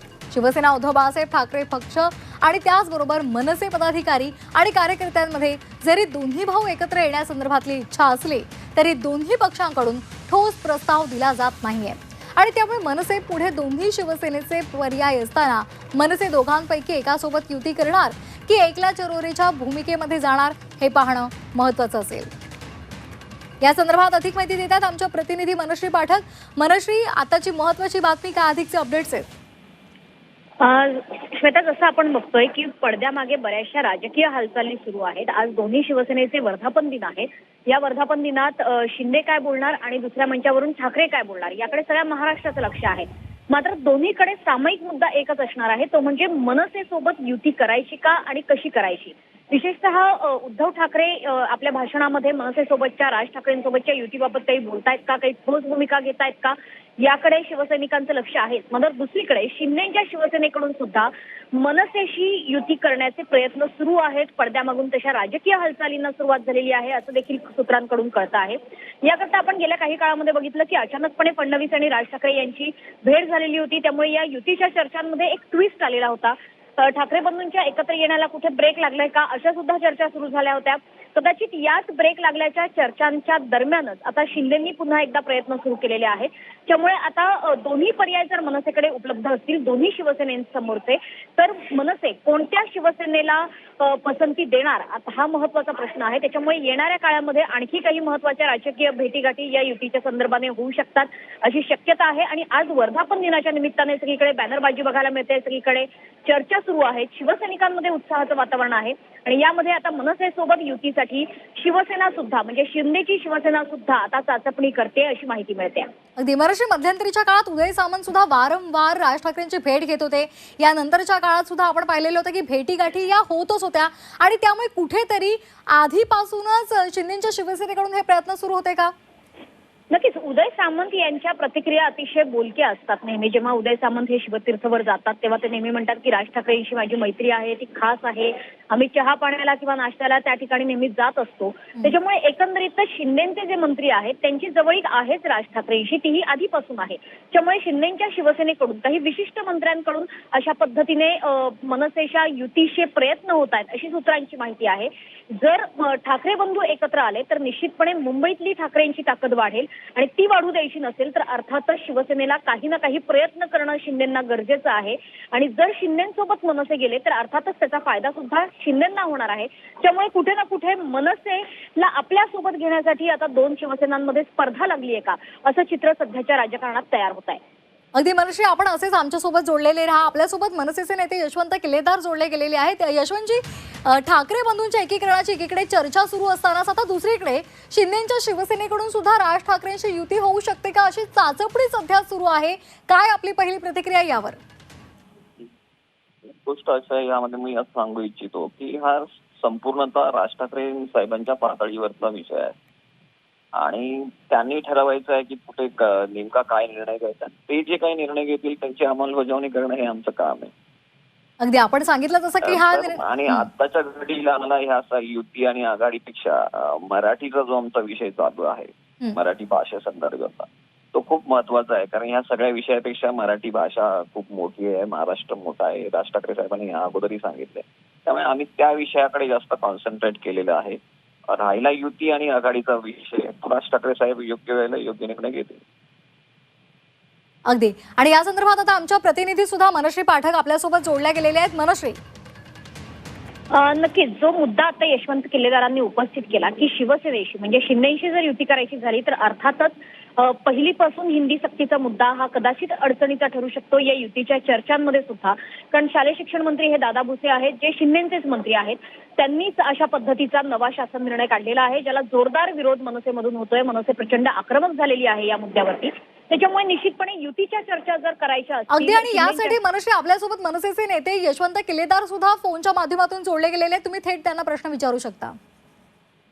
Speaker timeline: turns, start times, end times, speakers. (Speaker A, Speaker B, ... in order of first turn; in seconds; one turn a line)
Speaker A: 0.3-22.3
Speaker A: 23.6-29.3
Speaker B: 30.6-115.9
Speaker A: 116.2-128.9
Speaker B: 129.9-177.4
Speaker A: 177.9-194.4
Speaker C: 196.2-202.6
Speaker C: 203.6-210.5
Speaker A: 211.4-213.5
Speaker C: 212.4-235.6
Speaker A: 237.5-242.0
Speaker B: 243.5-269.6
Speaker A: 268.7-275.4